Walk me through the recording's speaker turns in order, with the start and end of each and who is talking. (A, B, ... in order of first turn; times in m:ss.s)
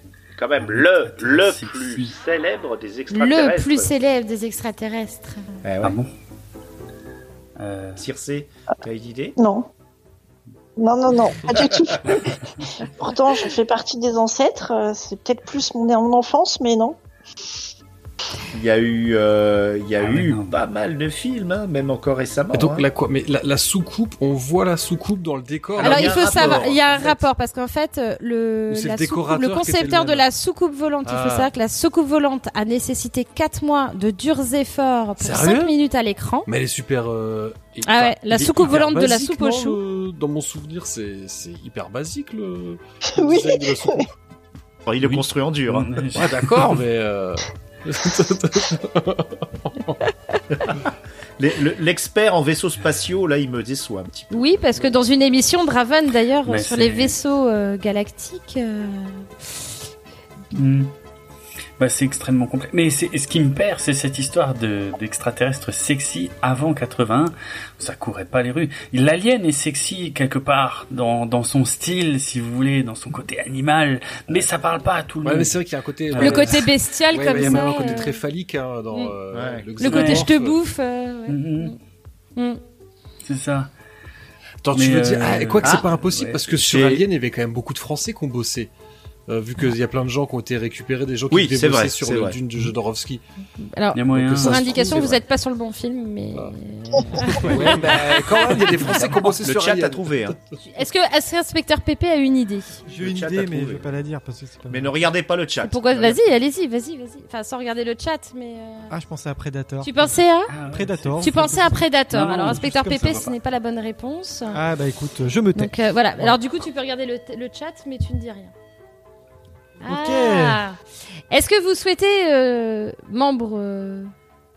0:00.3-0:03.9 A
0:00.6-0:02.1 B
0:03.1-0:05.5 C
0:05.6-0:06.0 A
0:05.8-0:06.1 B
0:07.6-0:08.0 B
0:08.0-0:09.4 A
0:09.4-0:09.7 D
0:10.8-0:12.3 D
0:12.8-0:17.0 D
0:18.5-0:22.8 A
0:20.0-0:20.6 B
0:22.5-0:27.2 E
0:25.8-0:26.8 A
0:25.8-0:36.5 C
0:28.7-0:30.2 E
0:31.0-0:31.5 E
0:35.2-0:35.7 E
0:36.5-0:44.1 E
0:37.8-0:39.8 C
0:43.2-0:44.0 D
0:44.8-0:45.9 A
0:45.0-0:46.8 B
0:46.1-0:50.0 E
0:51.4-0:54.5 A
0:54.3-0:59.3 C
0:56.4-0:57.2 B
1:00.5-1:00.9 B
1:01.8-1:16.6 B
1:15.2-1:20.6 E
1:16.2-1:18.2 C
1:17.3-1:17.9 B
1:19.3-1:19.7 A
1:19.8-1:21.8 C
1:19.9-1:20.3 B
1:21.3-1:21.8 B
1:23.2-1:23.7 B
1:24.6-1:28.7 E
1:24.7-1:26.4 B
1:26.6-1:27.0 A
1:29.3-1:33.2 E
1:31.3-1:32.4 A
1:33.6-1:38.5 C
1:33.9-1:34.8 B
1:34.1-1:35.2 E
1:37.1-1:40.4 E
1:38.9-1:40.4 A
1:40.6-1:42.8 C
1:42.8-1:45.0 F
1:43.0-1:43.8 A
1:44.7-1:46.2 A
1:45.6-1:48.9 C
1:48.9-1:53.2 F
1:49.8-1:50.5 C
1:50.5-1:51.3 B
1:51.2-1:54.6 C
1:52.1-1:53.2 B
1:54.5-1:56.3 F
1:55.5-1:58.5 C
1:59.8-2:00.8 C
1:59.8-2:00.6 F
2:01.3-2:04.1 C